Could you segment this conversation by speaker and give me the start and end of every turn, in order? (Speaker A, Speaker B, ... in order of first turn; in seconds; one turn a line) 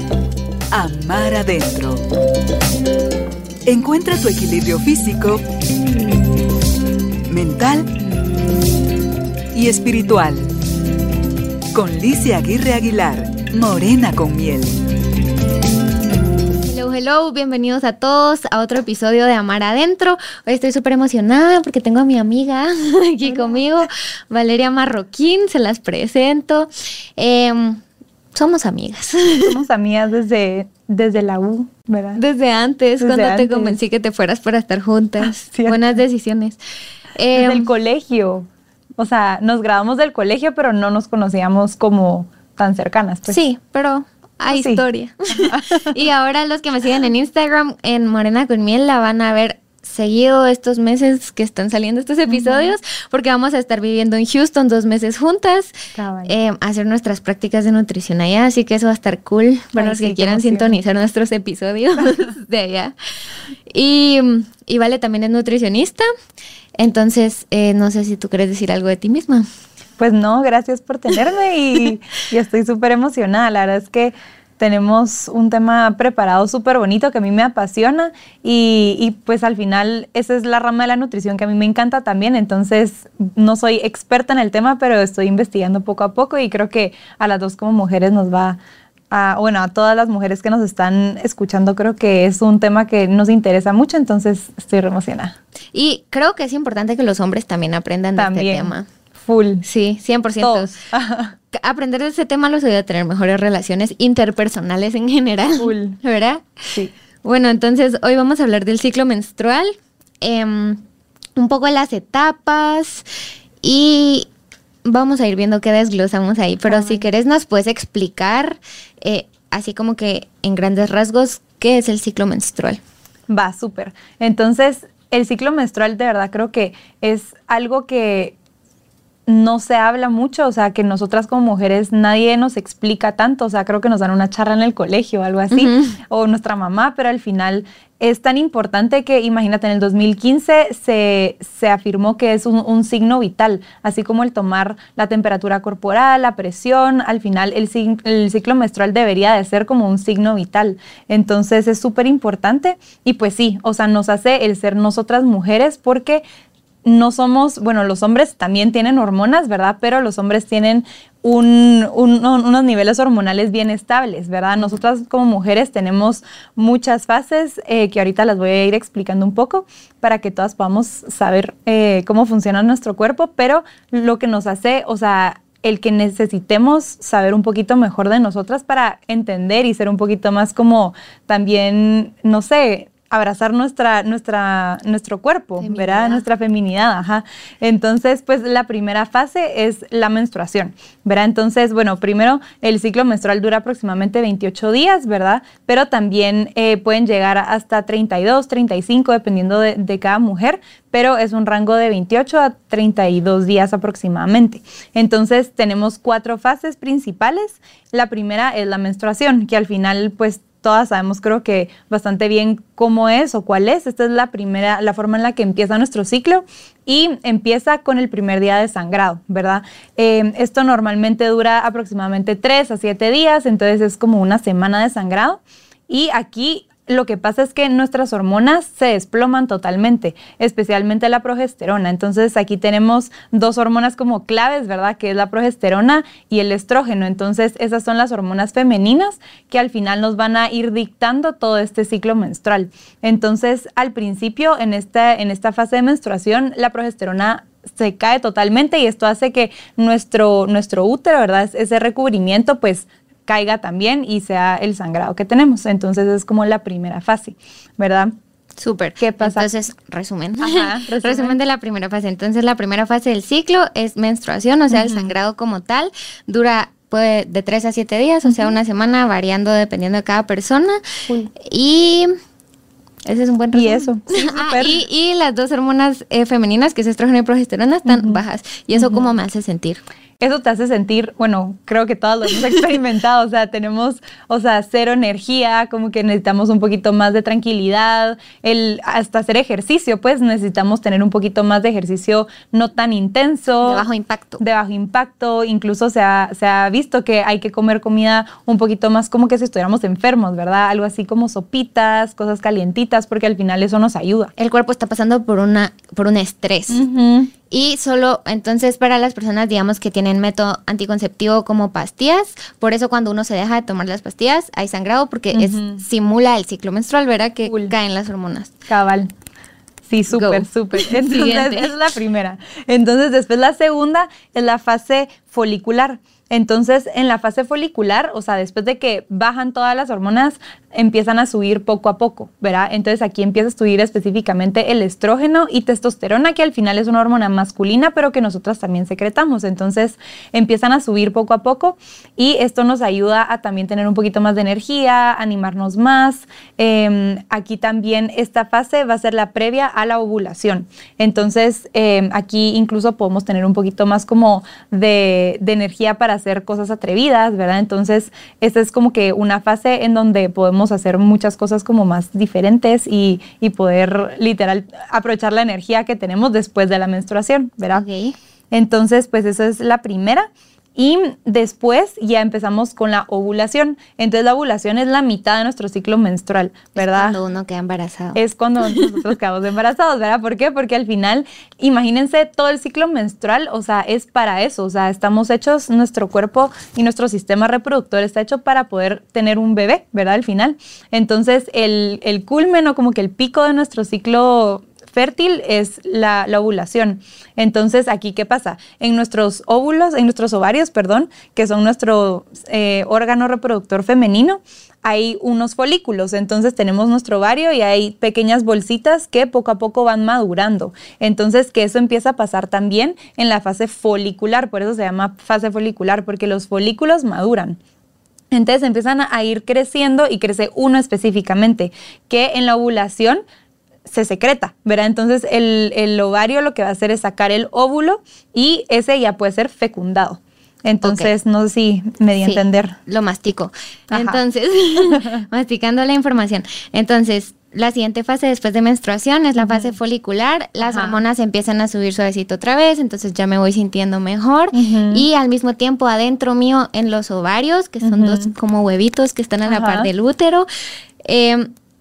Speaker A: 0.7-2.0
Speaker A: 3.7-5.4
Speaker A: 7.3-7.9
Speaker A: 9.5-10.5
Speaker A: 11.7-14.8
Speaker B: 16.6-27.8
Speaker C: 23.2-23.7
Speaker B: 28.4-29.6
Speaker C: 29.5-32.2
Speaker B: 32.2-36.6
Speaker C: 33.0-33.8
Speaker C: 35.2-36.0
Speaker B: 37.1-37.7
Speaker C: 37.3-43.4
Speaker B: 43.3-63.0
Speaker C: 44.5-45.9
Speaker C: 52.3-52.7
Speaker C: 56.0-56.3
Speaker C: 59.8-60.8
Speaker B: 63.7-66.1
Speaker B: 66.8-69.5
Speaker C: 70.0-88.6
Speaker C: 89.1-95.4
Speaker B: 95.7-98.9
Speaker C: 98.2-99.6
Speaker B: 99.6-100.7
Speaker C: 100.4-101.3
Speaker B: 101.5-106.7
Speaker C: 105.6-106.0
Speaker B: 107.2-110.8
Speaker B: 111.4-113.0
Speaker B: 113.6-114.3
Speaker B: 114.8-122.8
Speaker C: 116.7-117.0
Speaker C: 123.3-128.4
Speaker C: 129.3-156.2
Speaker B: 135.5-136.0
Speaker C: 156.8-258.1
Speaker B: 185.6-186.2
Speaker B: 258.6-270.8
Speaker C: 259.0-259.5
Speaker C: 260.4-261.4
Speaker C: 264.7-265.1
Speaker C: 268.2-268.6
Speaker B: 271.4-272.1
Speaker B: 273.1-279.8
Speaker C: 273.5-274.8
Speaker C: 277.9-278.2
Speaker C: 278.7-279.1
Speaker C: 280.2-293.9
Speaker B: 293.6-294.4
Speaker C: 294.4-304.3
Speaker B: 304.4-306.8
Speaker C: 306.7-307.3
Speaker B: 307.5-318.5
Speaker C: 315.3-315.8
Speaker C: 317.5-317.7
Speaker C: 318.7-319.1
Speaker C: 319.9-367.8
Speaker B: 320.1-321.7
Speaker B: 367.7-368.2
Speaker C: 368.5-377.2
Speaker B: 376.8-378.9
Speaker C: 378.2-417.6
Speaker C: 418.3-423.2
Speaker C: 423.9-432.8
Speaker B: 430.8-431.1
Speaker B: 432.2-450.5
Speaker C: 433.9-434.2
Speaker C: 434.9-435.2
Speaker C: 439.4-439.8
Speaker C: 440.6-441.0
Speaker C: 444.5-445.1
Speaker C: 447.8-448.3
Speaker C: 449.5-449.9
Speaker B: 451.0-451.5